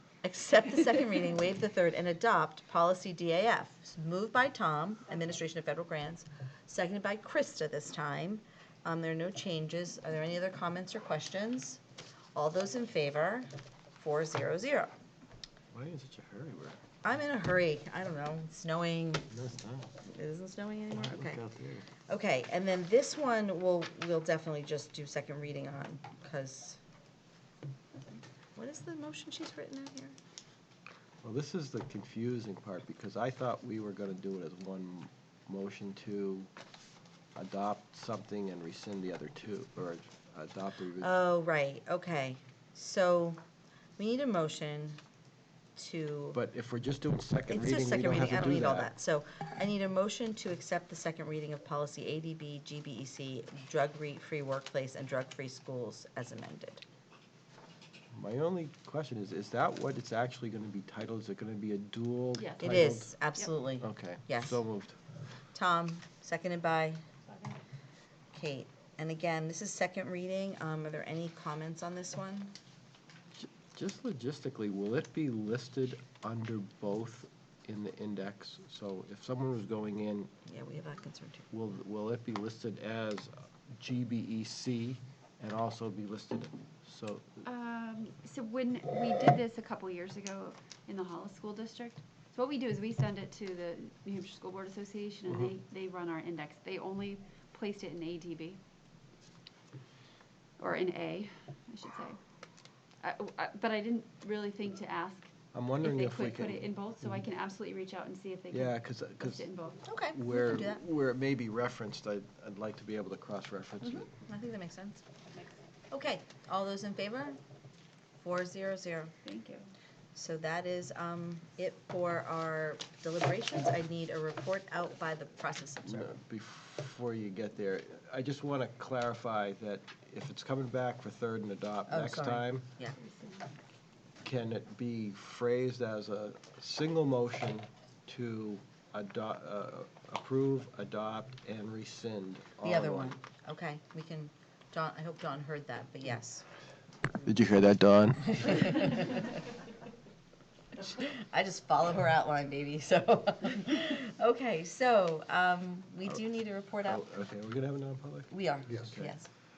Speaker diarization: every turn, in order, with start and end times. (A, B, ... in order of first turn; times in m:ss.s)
0:00.2-0:11.8 A
0:12.4-0:14.9 A
0:15.7-0:16.8 B
0:17.0-0:19.3 A
0:19.3-0:20.0 B
0:20.0-0:21.4 A
0:21.0-0:21.9 B
0:22.0-0:26.8 A
0:28.6-0:30.2 A
0:31.2-0:36.5 B
0:37.4-0:41.1 B
0:41.0-0:43.4 A
0:44.0-0:45.0 A
0:45.8-0:46.4 A
0:46.3-0:48.9 B
0:47.5-0:56.8 A
0:58.1-1:03.2 B
1:02.4-1:02.7 C
1:02.6-1:04.6 A
1:03.8-1:05.0 B
1:05.5-1:07.0 A
1:07.3-1:07.6 C
1:08.3-1:12.6 A
1:13.4-1:20.3 B
1:20.4-1:21.5 A
1:21.5-1:27.4 B
1:27.4-1:38.6 C
1:40.6-1:42.2 C
1:43.0-1:49.8 C
1:45.5-1:46.7 B
1:48.5-1:54.1 B
1:49.8-1:50.8 A
1:54.0-1:55.0 A
1:55.9-1:57.4 A
1:58.2-1:59.1 A
1:59.2-1:59.7 C
2:00.2-2:06.1 A
2:05.8-2:12.7 B
2:11.9-2:13.0 A
2:13.0-2:13.6 C
2:14.2-2:23.2 B
2:22.6-2:26.5 A
2:27.2-2:28.8 B
2:28.2-2:29.5 A
2:30.8-2:37.0 A
2:36.8-2:39.1 B
2:38.3-2:39.3 A